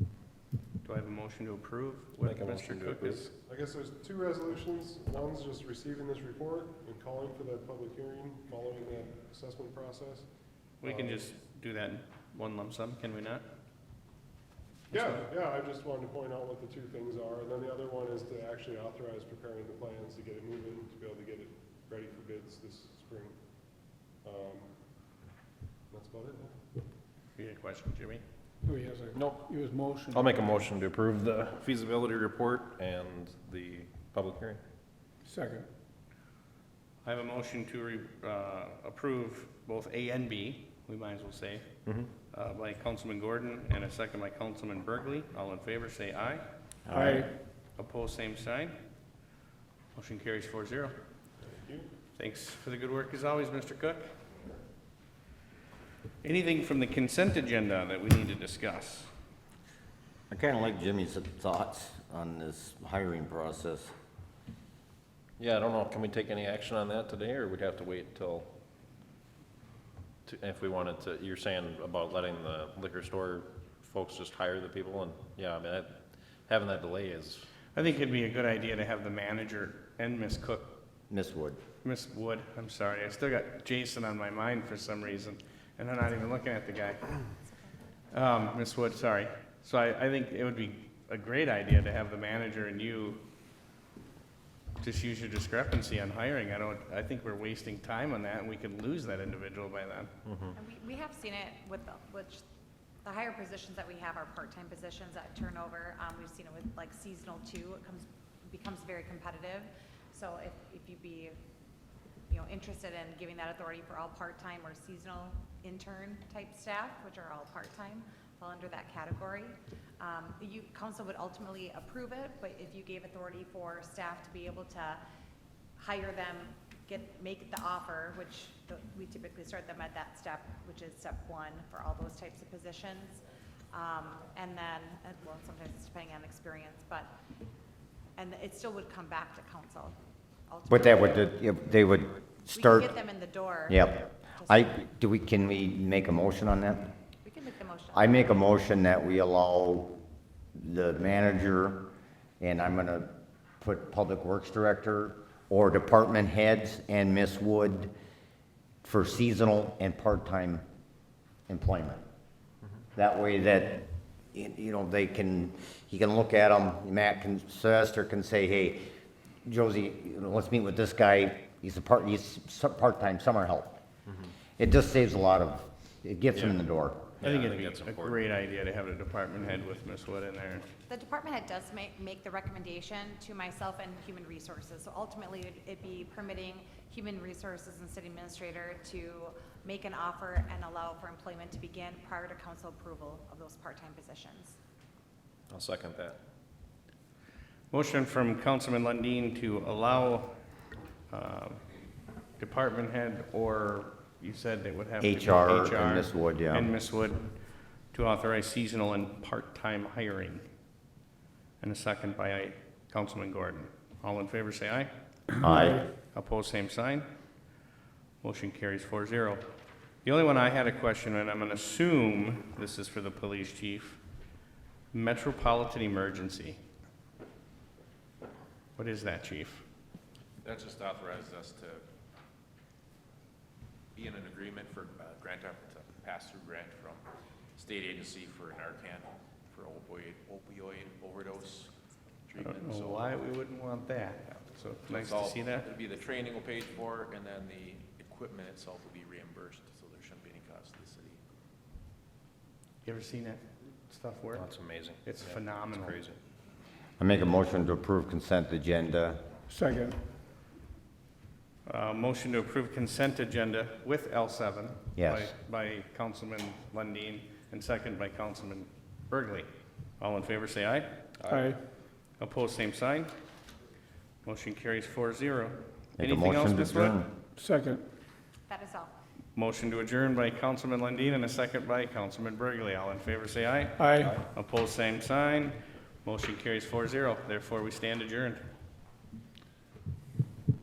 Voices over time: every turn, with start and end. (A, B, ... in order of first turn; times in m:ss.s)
0:00.8-0:03.3 A
0:02.2-0:03.3 B
0:03.3-0:10.3 C
0:10.8-0:13.4 A
0:10.8-0:11.3 C
0:14.9-0:23.4 C
0:14.9-0:15.2 A
0:23.9-0:24.7 C
0:25.9-0:26.6 C
0:27.4-0:28.2 A
0:28.6-0:30.3 D
0:29.1-0:29.5 B
0:30.1-0:34.6 B
0:35.2-0:35.7 D
0:37.0-0:41.7 A
0:41.8-0:42.1 B
0:42.3-0:46.4 A
0:46.8-0:47.2 E
0:46.9-0:47.3 D
0:47.7-0:48.8 A
0:49.9-0:51.0 A
0:51.5-0:51.9 C
0:52.1-0:54.0 A
0:56.2-0:59.1 A
1:00.3-1:03.9 E
1:05.4-1:08.5 B
1:10.2-1:17.5 B
1:17.7-1:20.8 A
1:21.1-1:21.6 E
1:21.8-1:27.1 A
1:28.1-1:33.2 A
1:34.8-1:40.1 A
1:40.2-1:40.5 B
1:40.5-1:42.4 F
1:43.0-1:51.4 F
1:52.3-2:05.0 F
2:05.8-2:13.2 F
2:13.7-2:17.1 F
2:18.2-2:20.0 F
2:20.5-2:21.3 F
2:20.7-2:23.0 E
2:22.5-2:24.7 F
2:23.7-2:26.9 E
2:27.2-2:28.5 F
2:27.9-2:30.0 E
2:30.6-2:37.9 E
2:38.8-2:40.6 E
2:41.5-2:42.0 E
2:42.9-2:48.8 E
2:49.4-2:53.8 E
2:54.6-2:57.1 E
2:56.3-2:56.6 B
2:57.2-2:58.2 B
2:57.2-3:00.7 A
3:00.9-3:14.6 F
3:15.5-3:16.2 B
3:17.7-3:20.3 A
3:21.1-3:21.6 A
3:22.4-3:27.3 A
3:25.0-3:26.7 E
3:27.9-3:30.4 A
3:31.6-3:34.9 A
3:35.4-3:35.8 E
3:36.1-3:37.0 A
3:38.2-3:39.4 A
3:40.0-3:44.0 A
3:44.9-3:46.6 A
3:48.8-3:49.6 A
3:50.4-3:51.8 G
3:53.9-3:57.0 G
3:57.6-4:01.7 G
4:02.2-4:03.1 G
4:02.4-4:05.7 A
4:04.9-4:11.2 G
4:12.8-4:14.5 A
4:14.3-4:16.2 B
4:15.0-4:16.0 A
4:17.0-4:19.2 E
4:19.5-4:20.0 D
4:21.6-4:29.5 A
4:25.0-4:25.3 E
4:30.0-4:31.0 A
4:31.3-4:31.6 D
4:32.2-4:33.1 A
4:34.2-4:37.0 A
4:36.0-4:37.1 E
4:37.4-4:37.8 D
4:38.5-4:38.9 F
4:39.4-4:48.4 A
4:43.8-4:44.2 D